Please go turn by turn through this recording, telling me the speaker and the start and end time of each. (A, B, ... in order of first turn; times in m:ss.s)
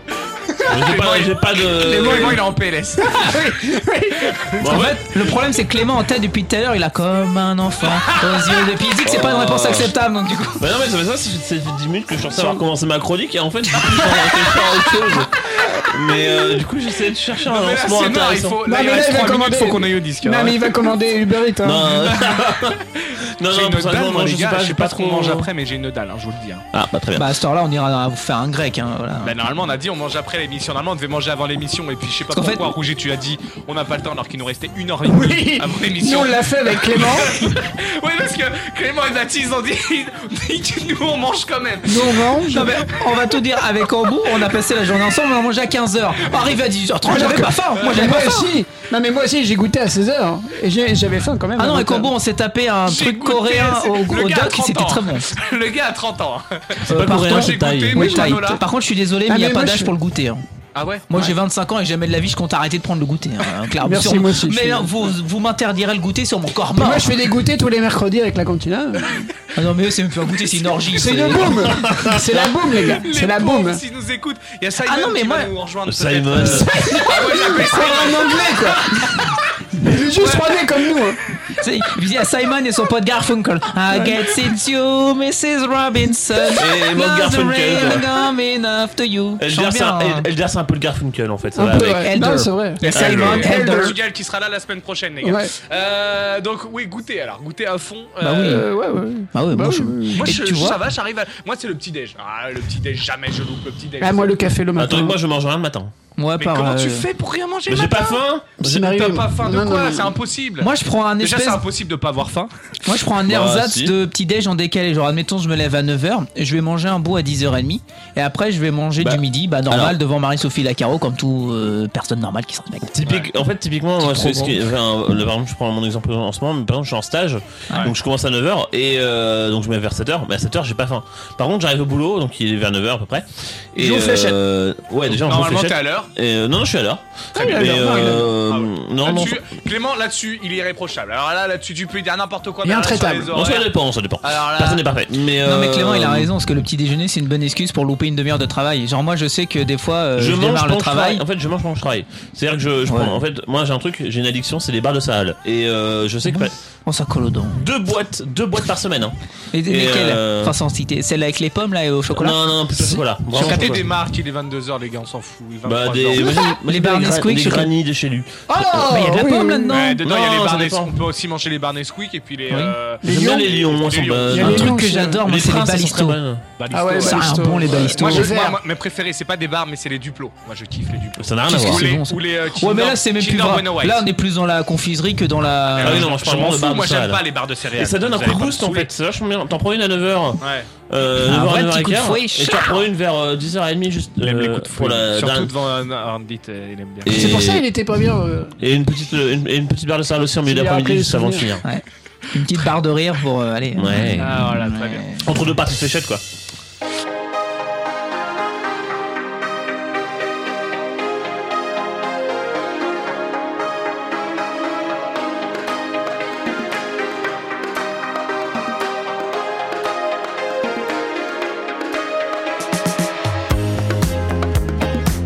0:00.7-0:02.4 A
0:00.7-0:03.3 B
0:03.0-0:04.7 C
0:04.6-0:05.0 A
0:04.7-0:10.6 D
0:08.2-0:08.5 B
0:09.0-0:09.9 A
0:10.6-0:18.6 A
0:17.4-0:20.9 B
0:18.6-0:21.9 C
0:21.6-0:22.8 A
0:21.9-0:26.7 B
0:23.4-0:25.5 A
0:26.7-0:27.4 A
0:27.2-0:29.3 D
0:29.2-0:42.3 B
0:32.3-0:32.7 D
0:35.0-0:37.5 C
0:41.9-0:42.7 C
0:42.5-0:48.5 D
0:47.1-0:52.1 C
0:47.8-0:48.1 B
0:51.6-0:55.3 D
0:52.9-0:58.6 B
0:56.9-0:58.0 A
0:56.9-1:00.4 D
0:58.0-0:58.6 C
0:59.3-0:59.9 C
1:00.8-1:01.1 B
1:01.1-1:07.2 D
1:03.8-1:04.9 C
1:06.8-1:09.3 C
1:09.6-1:11.6 D
1:10.9-1:13.8 C
1:11.9-1:12.5 A
1:12.7-1:18.8 B
1:14.8-1:15.5 D
1:15.9-1:16.9 A
1:16.5-1:19.0 C
1:19.8-1:21.2 C
1:20.2-1:20.9 B
1:21.6-1:30.3 D
1:26.6-1:28.1 A
1:29.4-1:32.1 A
1:31.6-1:34.0 C
1:31.7-1:34.0 D
1:32.8-1:38.7 B
1:32.9-1:33.5 A
1:35.2-1:35.5 C
1:38.2-1:38.7 D
1:38.4-1:40.2 C
1:39.3-1:40.8 D
1:40.1-1:44.4 B
1:44.0-1:45.2 C
1:44.8-1:45.9 A
1:46.2-1:47.1 D
1:46.4-1:52.5 B
1:47.7-1:49.0 A
1:48.6-1:50.2 C
1:50.6-1:51.6 D
1:52.9-2:03.0 D
1:53.2-1:54.0 A
1:59.0-2:00.0 A
2:03.0-2:19.4 A
2:04.0-2:04.6 D
2:07.7-2:08.0 B
2:13.8-2:14.4 B
2:15.1-2:16.1 B
2:17.3-2:18.3 C
2:17.4-2:17.8 B
2:18.5-2:23.7 B
2:22.6-2:23.4 C
2:23.3-2:26.3 A
2:24.2-2:24.8 B
2:25.4-2:31.2 D
2:30.2-2:36.6 A
2:32.9-2:33.2 D
2:36.3-2:37.7 D
2:37.5-2:40.6 A
2:39.5-2:43.8 D
2:42.1-2:43.9 A
2:43.3-2:46.4 B
2:45.6-2:48.9 A
2:46.3-2:47.7 D
2:48.5-2:50.0 C
2:48.5-2:50.0 D
2:49.7-2:54.5 B
2:50.0-2:50.9 A
2:52.5-2:52.8 D
2:53.0-2:55.2 C
2:53.0-2:56.5 A
2:54.4-2:56.2 D
2:56.6-3:04.0 B
2:56.7-2:58.6 C
2:57.0-2:58.4 D
3:01.2-3:01.9 A
3:01.5-3:06.1 D
3:05.7-3:08.9 B
3:05.8-3:07.2 A
3:07.7-3:15.5 A
3:10.4-3:10.7 B
3:11.2-3:12.8 D
3:14.2-3:17.4 B
3:17.0-3:17.7 A
3:17.1-3:18.6 C
3:18.6-3:21.6 A
3:20.5-3:21.5 C
3:21.6-3:25.5 D
3:23.8-3:24.5 A
3:24.2-3:25.0 B
3:25.2-3:26.2 A